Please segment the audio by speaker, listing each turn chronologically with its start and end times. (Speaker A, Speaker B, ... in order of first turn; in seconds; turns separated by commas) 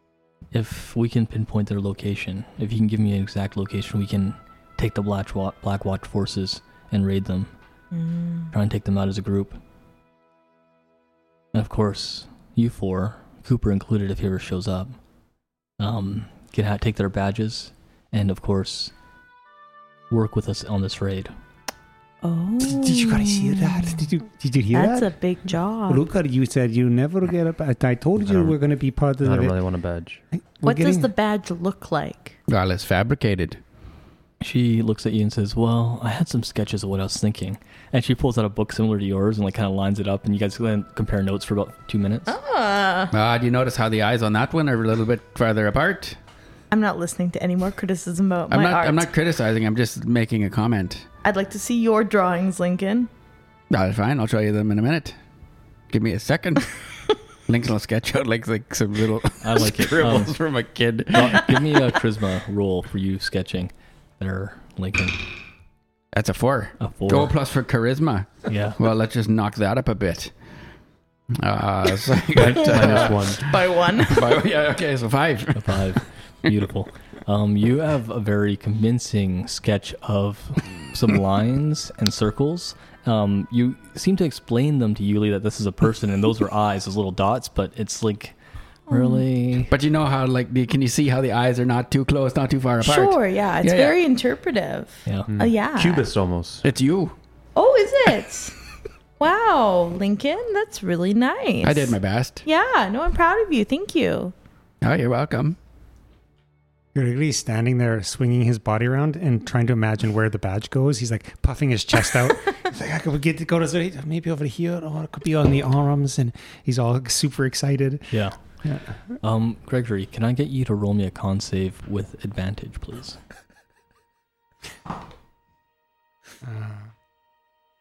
Speaker A: 0.5-7.5, Speaker B: 7.9-8.5, Speaker A: 8.5-9.6, Speaker A: 11.5-14.9, Speaker A: 15.8-18.9, Speaker A: 20.1-21.3, Speaker B: 22.2-24.0, Speaker C: 22.6-25.1, Speaker B: 24.7-26.0, Speaker C: 25.9-29.6, Speaker D: 28.2-28.6, Speaker D: 29.2-30.2, Speaker C: 30.3-31.1, Speaker B: 30.6-32.3, Speaker E: 32.5-33.6, Speaker A: 34.4-42.4, Speaker B: 42.3-43.1, Speaker E: 43.1-46.2, Speaker B: 46.7-49.0, Speaker E: 48.5-51.0, Speaker B: 51.2-53.1, Speaker E: 53.7-55.2, Speaker E: 55.9-56.8, Speaker E: 57.5-61.6, Speaker A: 59.4-60.4, Speaker A: 61.1-65.2, Speaker E: 66.1-70.3, Speaker A: 66.8-67.3, Speaker A: 68.5-68.8, Speaker E: 71.4-76.6, Speaker D: 72.3-73.4, Speaker B: 72.8-74.3, Speaker A: 75.5-88.3, Speaker B: 88.9-89.2, Speaker A: 88.9-89.7, Speaker E: 89.7-94.0, Speaker B: 92.8-96.0, Speaker D: 95.3-96.6, Speaker E: 96.6-97.1, Speaker B: 97.5-98.6, Speaker B: 99.2-104.3, Speaker E: 101.6-102.4, Speaker E: 104.8-105.6, Speaker C: 106.9-119.0, Speaker A: 118.1-118.4, Speaker A: 119.2-123.2, Speaker C: 126.5-126.8